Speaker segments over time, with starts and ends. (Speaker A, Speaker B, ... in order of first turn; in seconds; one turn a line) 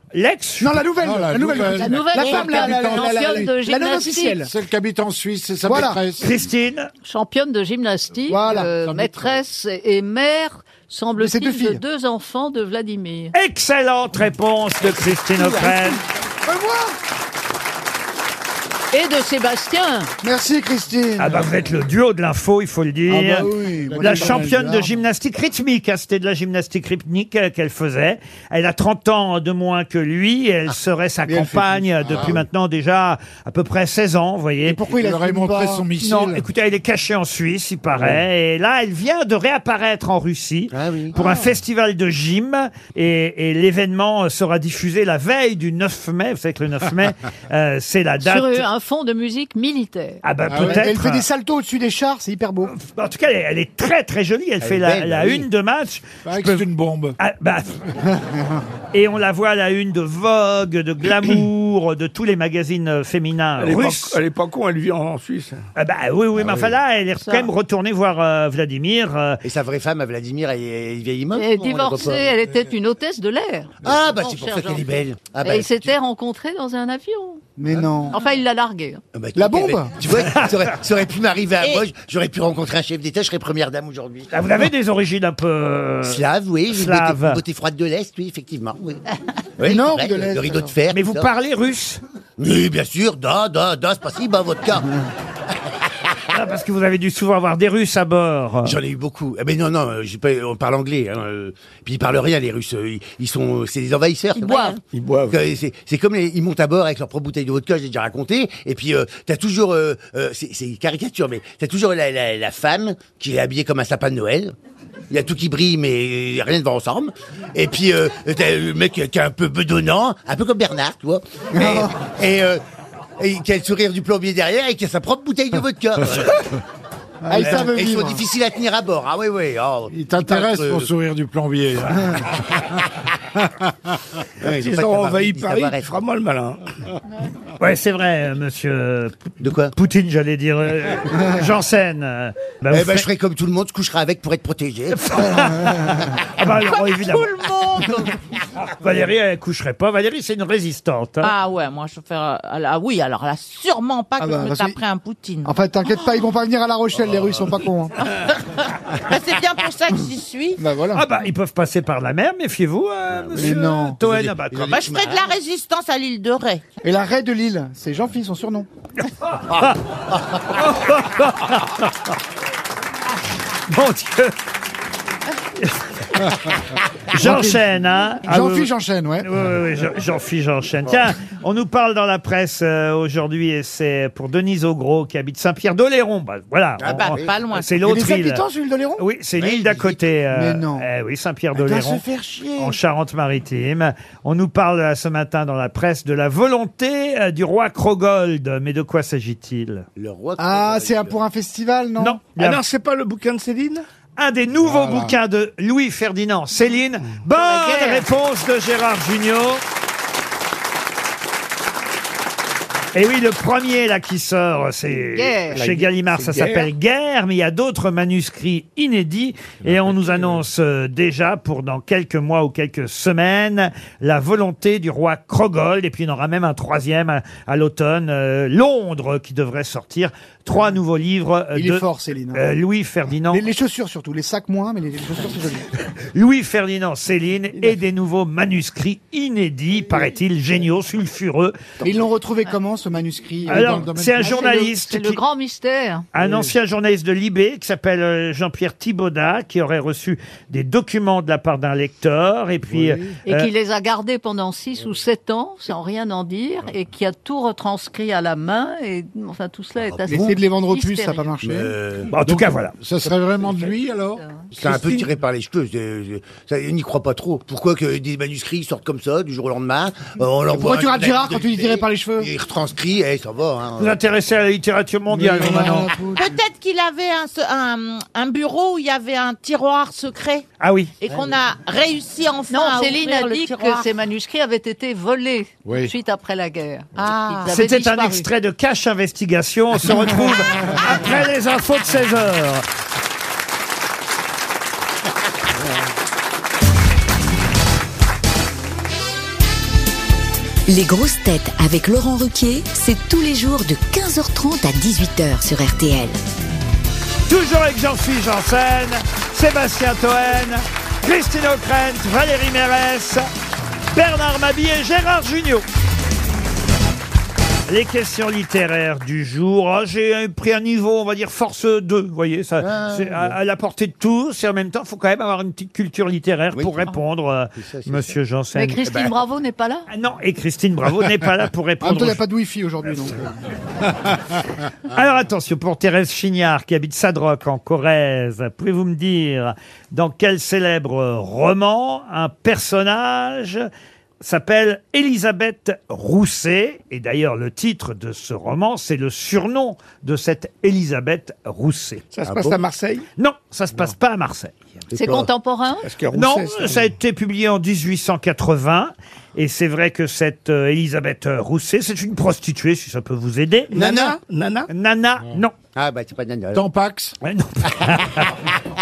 Speaker A: 0.1-0.8
Speaker B: 0.6-4.5
Speaker C: 1.0-3.5
Speaker D: 1.5-4.4
Speaker C: 4.4-6.5
Speaker B: 5.6-6.0
Speaker A: 6.2-6.9
Speaker D: 7.0-13.3
Speaker B: 8.3-8.7
Speaker C: 8.7-9.4
Speaker B: 11.2-11.8
Speaker A: 13.3-16.0
Speaker E: 15.3-15.7
Speaker B: 16.4-17.0
Speaker D: 18.9-20.1
Speaker B: 20.2-21.5
Speaker A: 21.2-23.5
Speaker B: 23.1-24.9
Speaker C: 23.9-24.8
Speaker A: 24.0-34.8
Speaker B: 31.3-31.8
Speaker C: 31.9-32.4
Speaker B: 34.7-35.9
Speaker C: 34.9-36.5
Speaker A: 36.0-48.6
Speaker E: 40.7-41.1
Speaker D: 48.2-50.2
Speaker A: 50.2-51.2
Speaker C: 50.5-51.0
Speaker B: 50.6-52.7
Speaker A: 52.7-56.6
Speaker E: 54.6-55.5
Speaker C: 56.2-57.2
Speaker A: 57.2-57.8
Speaker A: 58.9-64.2
Speaker F: 63.6-65.6
Speaker A: 65.8-69.4
Speaker C: 66.4-66.7
Speaker D: 67.2-67.5
Speaker E: 69.4-72.3
Speaker D: 71.3-77.4
Speaker E: 73.8-75.9
Speaker B: 77.6-78.2
Speaker D: 78.1-79.0
Speaker E: 79.1-84.3
Speaker B: 79.3-79.9
Speaker A: 80.1-80.7
Speaker A: 84.3-87.4
Speaker E: 86.0-89.0
Speaker E: 89.6-91.3
Speaker B: 89.6-90.7
Speaker A: 90.9-92.0
Speaker E: 92.4-94.9
Speaker A: 96.3-98.8
Speaker E: 98.6-114.5
Speaker D: 104.4-104.8
Speaker F: 104.9-105.4
Speaker E: 115.1-122.6
Speaker B: 121.5-121.9
Speaker E: 123.2-126.4
Speaker B: 127.2-128.2
Speaker E: 127.3-130.9
Speaker C: 129.9-132.8
Speaker E: 134.4-135.9
Speaker F: 134.4-136.6
Speaker A: 137.6-143.1
Speaker E: 139.4-139.7
Speaker E: 142.7-145.2
Speaker A: 144.9-147.3
Speaker G: 146.4-148.1
Speaker A: 148.8-151.3
Speaker G: 151.2-155.5
Speaker B: 154.2-154.8
Speaker B: 155.4-157.9
Speaker G: 158.9-160.6
Speaker B: 160.6-161.0
Speaker A: 160.9-164.8
Speaker E: 163.1-165.3
Speaker B: 163.3-164.0
Speaker G: 164.6-166.6
Speaker B: 166.8-168.7
Speaker A: 169.2-169.8
Speaker E: 170.1-170.4
Speaker A: 170.4-172.2
Speaker A: 173.7-174.3
Speaker A: 175.6-176.5
Speaker A: 177.1-188.4
Speaker B: 177.1-177.6
Speaker B: 178.2-179.3
Speaker E: 186.8-187.3
Speaker G: 186.8-187.7
Speaker B: 187.8-189.0
Speaker A: 189.0-192.0
Speaker E: 189.4-190.1
Speaker B: 190.3-190.9
Speaker E: 191.5-192.8
Speaker A: 192.6-199.9
Speaker E: 199.9-201.2
Speaker B: 200.4-202.2
Speaker A: 202.0-202.6
Speaker F: 202.3-203.8
Speaker A: 204.2-209.6
Speaker C: 204.6-205.1
Speaker D: 207.4-208.0
Speaker A: 212.9-233.4
Speaker D: 215.1-215.6
Speaker F: 215.5-216.7
Speaker C: 219.6-220.3
Speaker B: 231.5-232.4
Speaker B: 233.3-235.7
Speaker A: 236.1-241.6
Speaker B: 241.8-243.9
Speaker C: 243.4-244.4
Speaker A: 243.5-245.2
Speaker D: 244.2-246.1
Speaker A: 246.1-253.5
Speaker C: 252.7-253.2
Speaker D: 253.2-261.3
Speaker E: 259.8-260.4
Speaker B: 260.1-261.7
Speaker E: 261.4-262.1
Speaker A: 262.1-262.7
Speaker C: 262.1-264.2
Speaker E: 264.5-274.0
Speaker F: 264.6-265.0
Speaker B: 270.5-272.3
Speaker A: 273.8-275.9
Speaker B: 275.1-276.4
Speaker G: 276.1-280.4
Speaker A: 280.6-280.9
Speaker G: 281.0-283.9
Speaker D: 282.5-288.3
Speaker C: 285.6-285.9
Speaker G: 286.9-287.5
Speaker A: 287.5-292.6
Speaker H: 300.7-306.2
Speaker A: 307.3-313.3
Speaker A: 313.9-315.6
Speaker A: 317.7-328.8
Speaker E: 322.6-323.4
Speaker E: 326.5-326.9
Speaker E: 327.5-328.2
Speaker D: 328.5-329.9
Speaker E: 328.8-329.1
Speaker A: 329.9-332.2
Speaker B: 331.8-333.4
Speaker A: 334.9-343.7
Speaker A: 344.2-352.1
Speaker F: 352.1-353.1
Speaker E: 352.2-352.6
Speaker A: 353.2-354.5
Speaker E: 354.9-355.3
Speaker D: 354.9-355.9
Speaker F: 355.8-356.9
Speaker A: 356.1-363.8
Speaker F: 363.7-364.7
Speaker E: 363.7-364.2
Speaker A: 364.7-365.5
Speaker E: 365.7-366.6
Speaker C: 366.5-367.1
Speaker A: 367.2-368.4